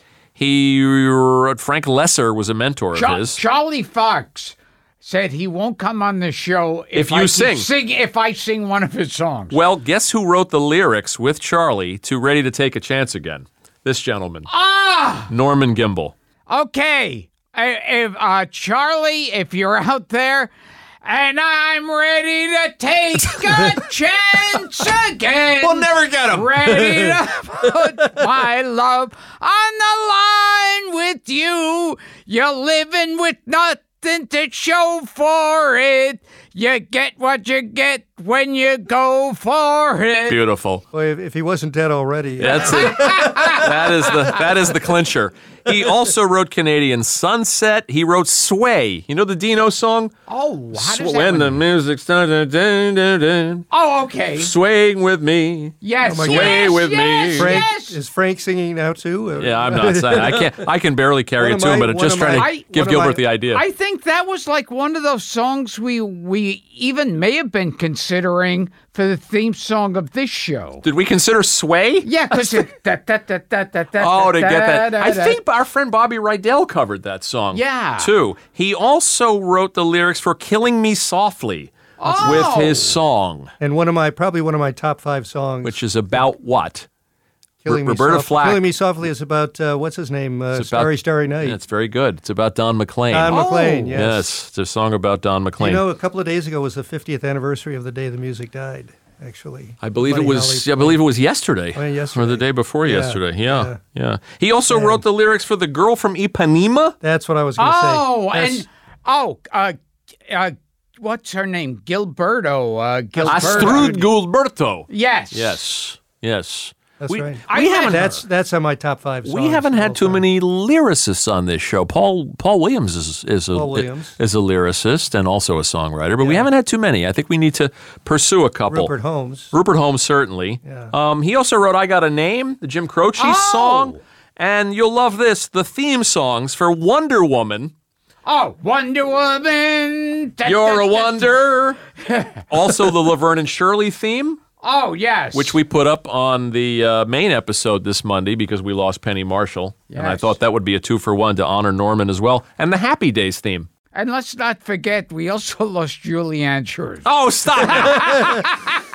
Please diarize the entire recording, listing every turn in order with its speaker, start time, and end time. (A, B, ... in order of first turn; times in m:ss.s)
0:00.4-0:03.4 A
0:02.9-0:09.6 B
0:06.9-0:07.7 A
0:09.5-0:14.5 A
0:14.5-0:15.3 B
0:15.3-0:16.1 A
0:16.5-0:20.5 B
0:21.0-0:40.4 B
0:25.6-0:27.1 A
0:40.3-0:40.8 A
0:40.9-0:44.5 C
0:42.4-0:50.1 A
0:42.6-0:43.6 B
0:50.3-0:51.6 B
0:50.7-0:53.6 A
0:53.7-0:54.5 B
0:54.4-0:57.6 A
0:55.8-0:58.0 B
0:56.0-0:56.8 C
0:57.3-1:00.7 C
0:59.4-1:03.6 A
1:01.4-1:03.2 C
1:02.3-1:02.7 B
1:03.5-1:10.8 B
1:10.8-1:12.1 A
1:12.0-1:15.4 B
1:14.0-1:23.5 A
1:17.5-1:18.1 B
1:22.0-1:23.0 B
1:22.1-1:22.5 C
1:23.6-1:26.2 C
1:25.6-1:26.9 A
1:27.6-1:31.6 C
1:27.7-1:28.6 A
1:30.5-1:35.8 A
1:33.1-1:34.3 C
1:33.3-1:33.9 B
1:35.6-1:41.0 C
1:39.8-1:47.0 A
1:41.7-1:43.8 C
1:44.7-1:45.0 C
1:47.0-1:48.6 C
1:47.6-1:54.0 B
1:53.2-1:54.0 C
1:53.3-1:58.1 A
1:54.9-1:55.6 B
1:57.0-2:00.2 C
1:57.5-1:58.2 B
1:59.2-2:08.9 A
2:03.5-2:04.1 C
2:06.2-2:06.5 C
2:08.7-2:09.5 C
2:09.5-2:17.7 A
2:10.6-2:10.9 C
2:13.2-2:14.0 B
2:18.2-2:21.3 B
2:20.4-2:21.8 A
2:22.0-2:22.4 B
2:22.5-2:24.4 A
2:24.6-2:25.6 B
2:25.3-2:33.7 A
2:29.9-2:30.3 B
2:33.9-2:37.1 B
2:37.0-2:38.5 A
2:37.6-2:38.8 B
2:38.0-2:38.4 C